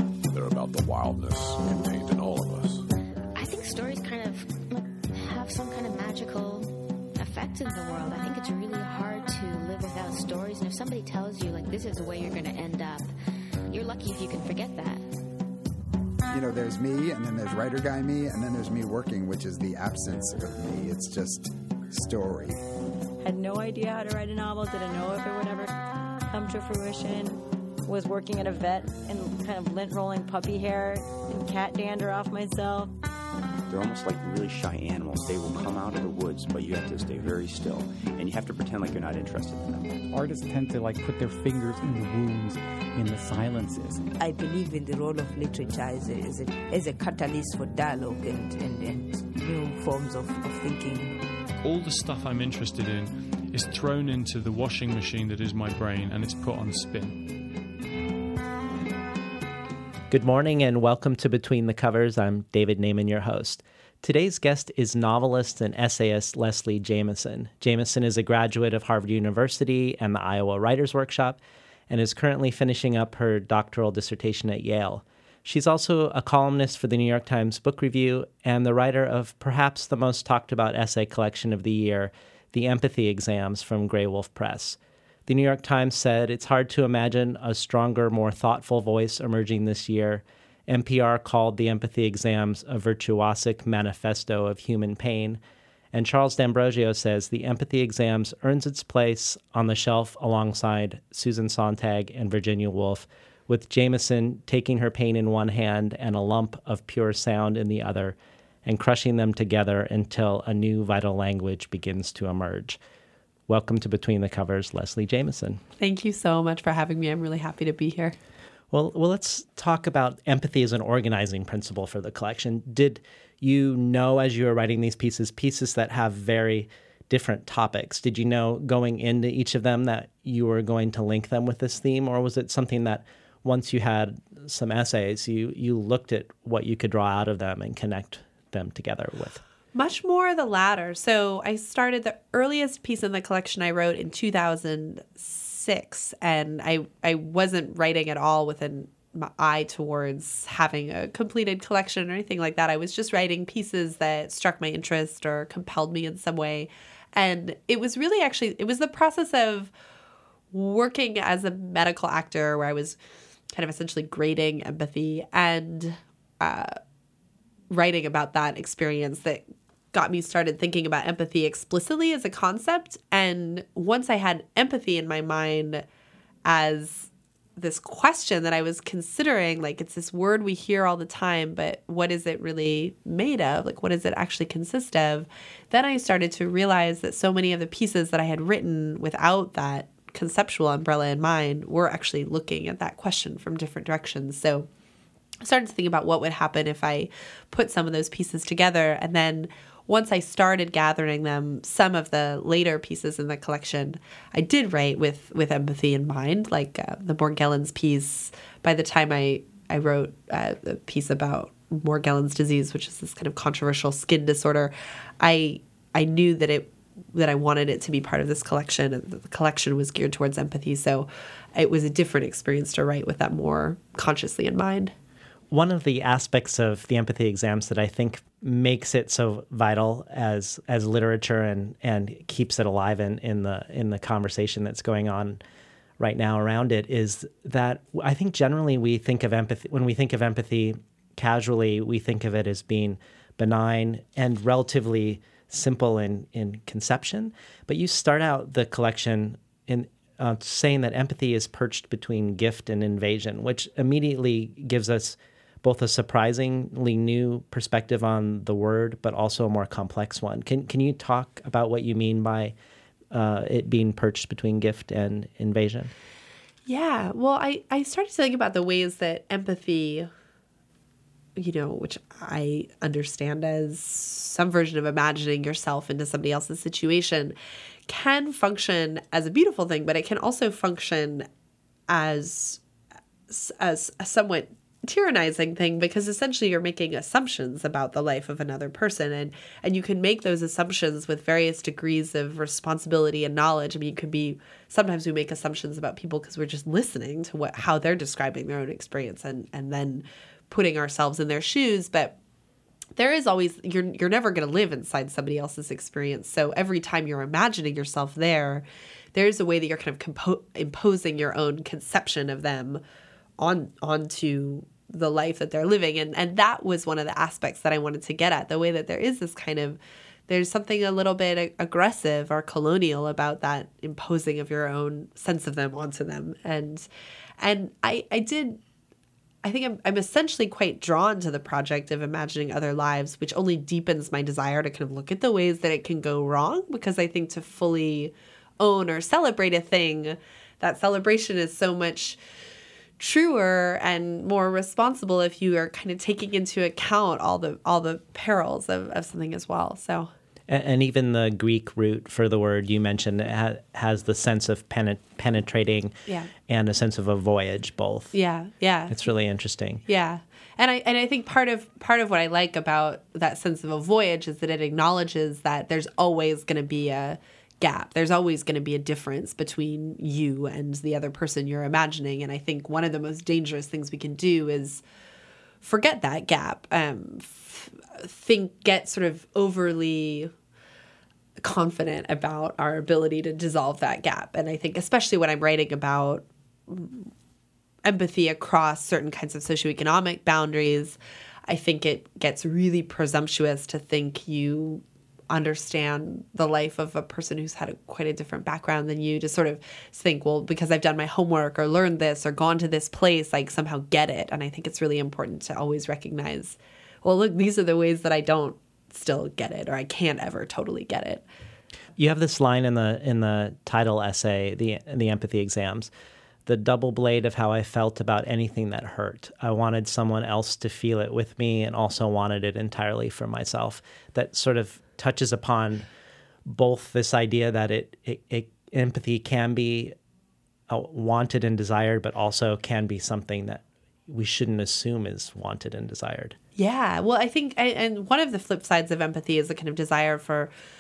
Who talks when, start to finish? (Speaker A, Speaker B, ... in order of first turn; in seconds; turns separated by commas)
Speaker A: 0.3-2.9, Speaker B: 3.4-13.1, Speaker B: 13.7-15.0, Speaker C: 16.3-22.6, Speaker D: 23.2-25.7, Speaker D: 26.3-32.9, Speaker E: 33.7-40.0, Speaker F: 40.1-44.1, Speaker G: 44.2-51.2, Speaker H: 51.6-57.4, Speaker I: 60.1-95.4, Speaker I: 95.9-112.8, Speaker I: 113.5-115.6, Speaker J: 115.8-118.2, Speaker I: 118.7-139.4, Speaker J: 139.7-159.7, Speaker J: 160.5-163.0, Speaker J: 163.5-166.8, Speaker J: 167.7-175.8, Speaker J: 176.4-194.7, Speaker J: 195.4-224.9, Speaker I: 225.5-235.4, Speaker I: 236.0-262.6, Speaker I: 263.1-265.9, Speaker J: 266.7-270.1, Speaker J: 271.4-277.4, Speaker J: 277.9-281.3, Speaker J: 281.9-282.6, Speaker J: 283.3-302.2, Speaker J: 303.0-312.8, Speaker J: 313.4-326.9, Speaker J: 327.4-328.6, Speaker J: 329.4-342.2, Speaker J: 343.0-350.1, Speaker I: 350.5-358.1, Speaker J: 358.1-359.0, Speaker I: 358.9-359.8, Speaker J: 359.9-374.8, Speaker J: 375.6-380.3, Speaker J: 381.4-387.1, Speaker J: 387.8-391.0, Speaker J: 391.5-411.2, Speaker I: 412.0-415.9, Speaker I: 416.5-425.9, Speaker I: 426.5-429.9, Speaker I: 430.7-436.4, Speaker J: 436.6-440.5